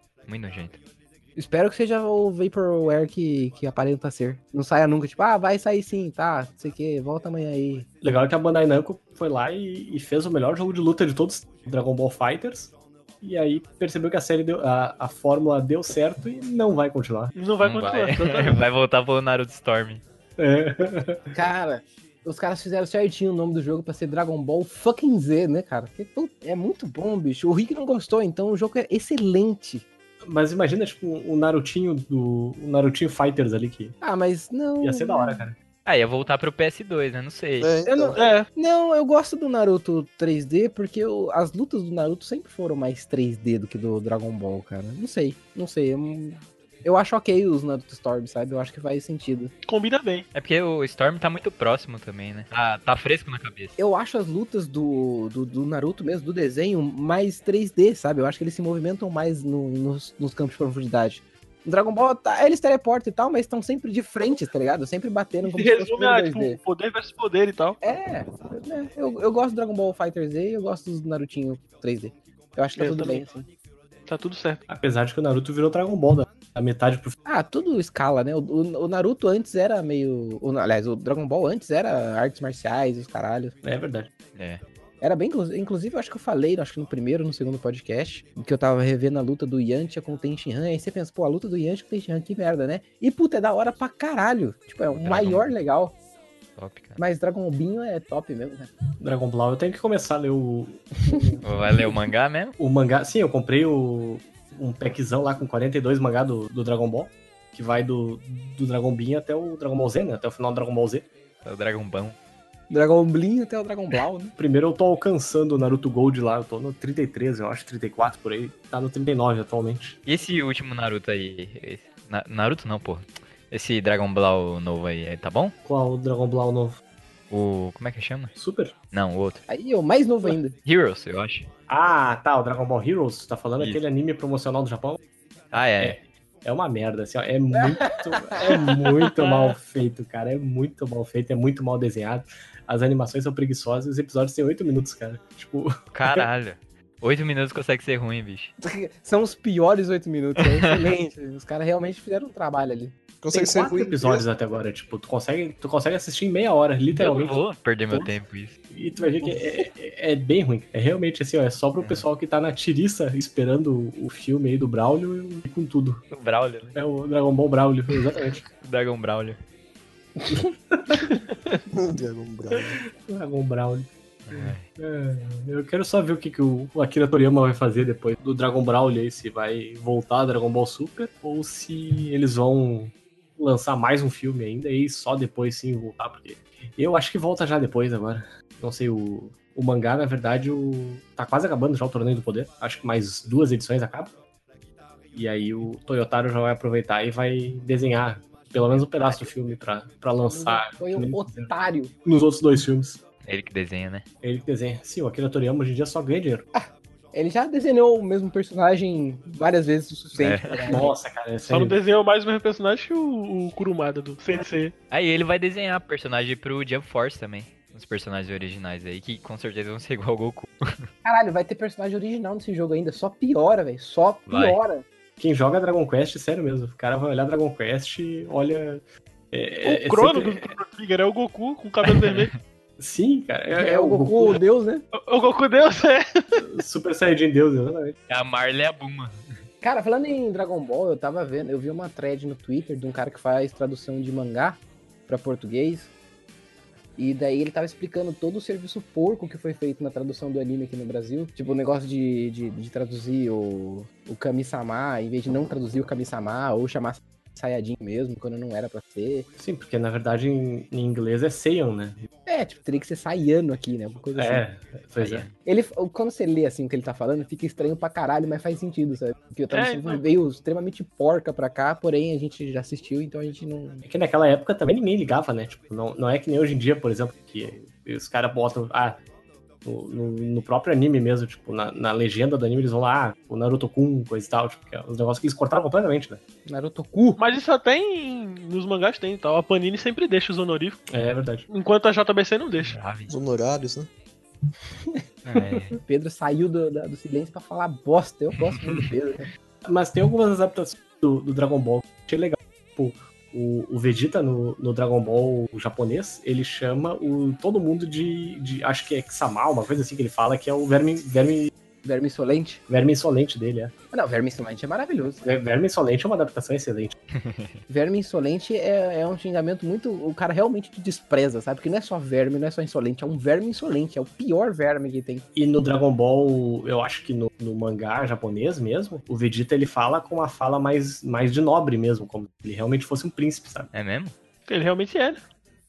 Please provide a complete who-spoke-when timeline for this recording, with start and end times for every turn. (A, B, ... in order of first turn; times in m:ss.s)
0:00.3-0:00.8 A
0:01.4-0:07.9 B
0:08.0-0:17.3 C
0:17.3-0:18.6 D
0:17.6-0:20.0 A
0:20.4-0:21.3 C
0:21.3-0:29.8 B
0:30.2-0:33.9 C
0:34.0-0:35.4 B
0:34.8-0:35.6 C
0:35.9-0:37.7 A
0:37.6-0:38.2 E
0:37.9-0:49.5 B
0:38.2-0:38.5 D
0:49.6-0:50.3 D
0:50.3-0:53.8 A
0:53.8-1:06.6 B
1:05.4-1:07.8 D
1:07.8-1:13.4 B
1:12.8-1:13.2 D
1:14.0-1:14.6 D
1:14.7-1:17.1 C
1:17.3-1:23.6 B
1:23.6-1:24.1 C
1:24.4-1:24.6 A
1:25.0-1:35.9 B
1:34.9-1:35.5 A
1:36.6-1:37.0 A
1:37.0-1:38.7 B
1:39.0-1:41.9 C
1:41.4-1:42.6 A
1:42.6-1:51.1 C
1:51.4-1:52.2 A
1:52.7-1:54.3 B
1:54.4-2:00.0 C
2:00.0-2:05.6 A
2:05.6-2:06.8 C
2:07.3-2:08.3 A
2:08.4-2:08.7 C
2:08.9-2:09.4 A
2:09.5-2:10.6 B
2:10.6-2:11.5 A
2:11.7-2:15.0 C
2:15.5-2:16.0 A
2:15.8-2:26.3 C
2:17.6-2:18.4 B
2:25.9-2:28.5 A
2:28.6-2:33.8 B
2:33.2-2:34.2 E
2:33.6-2:38.1 C
2:37.0-2:38.5 A
2:38.7-2:46.0 C
2:46.1-2:46.8 A
2:46.7-2:48.4 C
2:48.6-2:49.4 A
2:50.3-2:51.2 C
2:51.7-2:52.8 E
2:52.8-3:14.1 C
2:54.3-2:54.6 A
3:15.1-3:21.5 C
3:19.0-3:19.2 A
3:20.3-3:21.9 B
3:22.0-3:23.0 C
3:23.2-3:24.0 A
3:24.2-3:26.5 C
3:26.6-3:30.9 B
3:30.2-3:30.9 A
3:30.6-3:31.8 C
3:31.4-3:34.7 D
3:34.9-3:40.9 A
3:41.0-3:44.8 B
3:44.3-3:44.6 A
3:45.2-3:50.6 C
3:49.6-3:52.3 D
3:51.8-3:52.4 A
3:52.8-3:54.4 C
3:53.6-3:54.9 B
3:54.9-3:56.5 D
3:56.4-3:58.0 C
3:58.1-3:59.2 A
3:59.6-4:05.9 B
4:07.0-4:19.3 B
4:19.4-4:22.1 C
4:22.3-4:24.4 B
4:24.2-4:25.2 C
4:25.0-4:25.3 A
4:25.4-4:33.8 B
4:29.5-4:30.0 D
4:33.8-4:39.0 C
4:39.6-4:46.2 C
4:46.4-4:47.2 B
4:47.2-4:50.8 D
4:50.9-4:51.4 C
4:51.5-4:52.8 D
4:52.6-4:53.1 A
4:53.1-4:53.9 E
4:55.3-4:55.8 A
4:55.8-4:59.3 B
4:59.6-5:11.5 C
5:11.8-5:12.6 B
5:12.7-5:13.7 C
5:13.9-5:15.3 B
5:15.2-5:17.0 C
5:17.1-5:17.5 A
5:17.7-5:25.2 B
5:25.3-5:33.7 C
5:33.7-5:34.1 A
5:34.5-5:35.2 D